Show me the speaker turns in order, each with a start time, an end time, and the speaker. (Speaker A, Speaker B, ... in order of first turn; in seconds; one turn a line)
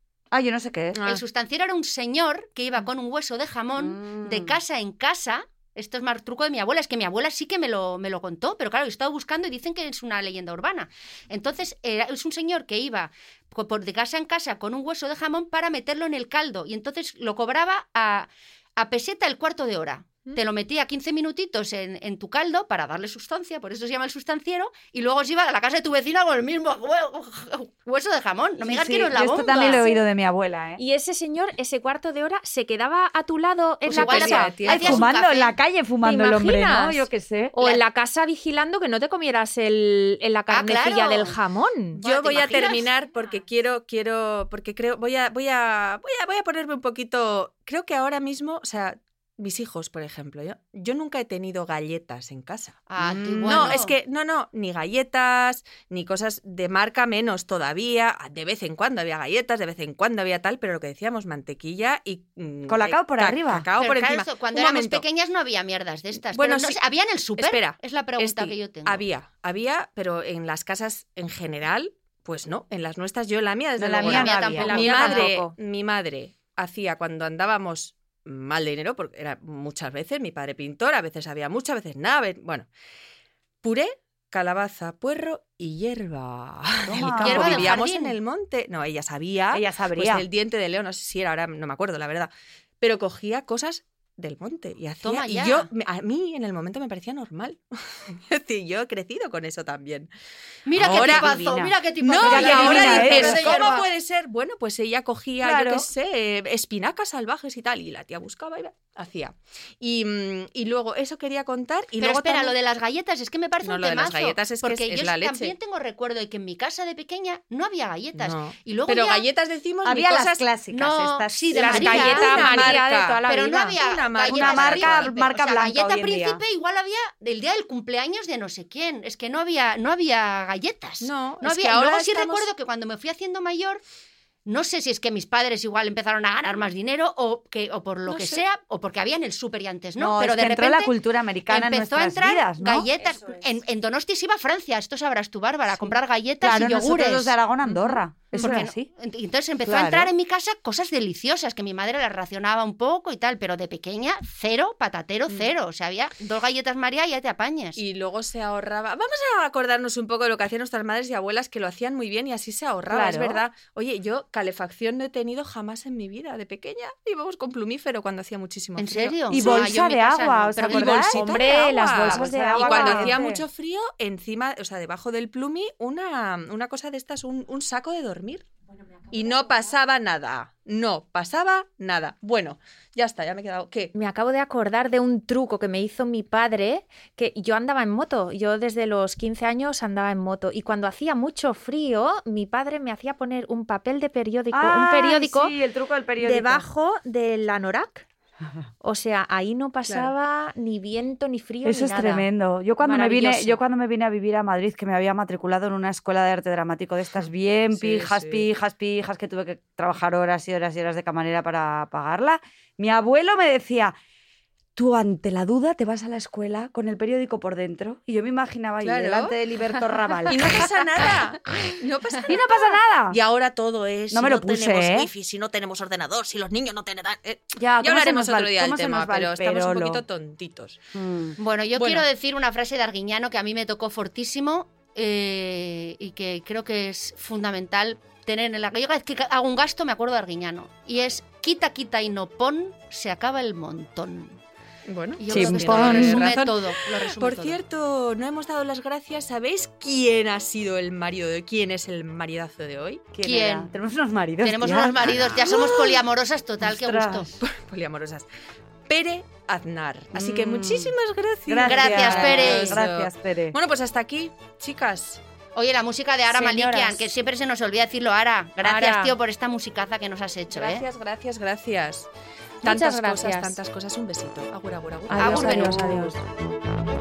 Speaker A: 0.3-1.0
Speaker B: 0.9-1.2
Speaker C: 1.1-29.9
Speaker A: 3.8-4.6
Speaker A: 28.6-30.8
Speaker D: 30.8-34.8
Speaker C: 33.9-35.6
Speaker B: 33.9-35.1
Speaker A: 34.1-37.5
Speaker D: 36.0-42.0
Speaker C: 40.5-41.4
Speaker C: 42.0-42.9
Speaker B: 42.0-65.0
Speaker C: 52.9-54.0
Speaker A: 53.5-53.8
Speaker A: 62.7-63.7
Speaker C: 63.8-69.0
Speaker B: 66.3-66.8
Speaker B: 67.4-82.7
Speaker A: 73.8-75.3
Speaker C: 74.0-75.1
Speaker D: 74.5-75.5
Speaker B: 83.6-92.3
Speaker A: 86.8-87.8
Speaker C: 87.1-88.2
Speaker A: 89.5-90.3
Speaker B: 92.8-100.1
Speaker C: 95.0-95.7
Speaker C: 100.7-103.8
Speaker B: 100.7-101.4
Speaker A: 100.8-103.9
Speaker B: 102.0-112.5
Speaker A: 105.4-105.9
Speaker C: 112.0-119.3
Speaker B: 113.6-115.5
Speaker B: 118.2-120.5
Speaker A: 119.8-122.5
Speaker C: 120.7-133.8
Speaker D: 121.5-123.8
Speaker B: 121.7-125.2
Speaker A: 124.3-126.4
Speaker B: 131.0-132.5
Speaker C: 134.5-140.9
Speaker B: 138.1-138.4
Speaker A: 140.0-142.9
Speaker C: 141.5-147.3
Speaker A: 146.4-148.9
Speaker B: 147.7-148.5
Speaker C: 148.4-157.8
Speaker A: 149.7-150.1
Speaker B: 157.8-169.7
Speaker A: 162.9-163.4
Speaker C: 168.8-171.1
Speaker A: 169.3-171.3
Speaker B: 170.6-178.5
Speaker D: 171.1-173.2
Speaker A: 172.0-173.4
Speaker B: 179.1-183.9
Speaker D: 183.9-195.6
Speaker A: 194.5-196.7
Speaker D: 196.2-198.1
Speaker D: 198.8-202.3
Speaker A: 201.6-213.9
Speaker D: 202.8-203.6
Speaker B: 207.7-208.5
Speaker A: 214.8-220.7
Speaker B: 218.8-219.4
Speaker B: 220.2-230.8
Speaker A: 222.3-223.2
Speaker A: 224.1-225.1
Speaker A: 227.6-230.0
Speaker A: 230.9-231.4
Speaker C: 231.4-244.4
Speaker B: 231.7-232.1
Speaker B: 244.9-253.1
Speaker C: 245.2-247.6
Speaker A: 245.3-246.4
Speaker A: 253.1-256.0
Speaker C: 253.2-253.7
Speaker C: 254.4-257.3
Speaker B: 255.0-255.6
Speaker A: 256.6-257.3
Speaker B: 257.4-258.3
Speaker B: 258.9-265.2
Speaker A: 260.1-260.9
Speaker A: 261.5-263.6
Speaker C: 261.6-262.8
Speaker C: 265.6-270.9
Speaker D: 266.3-267.0
Speaker D: 268.6-269.1
Speaker B: 270.5-272.1
Speaker D: 272.6-273.6
Speaker B: 272.6-276.1
Speaker D: 275.1-276.1
Speaker A: 275.1-276.1
Speaker C: 275.2-275.9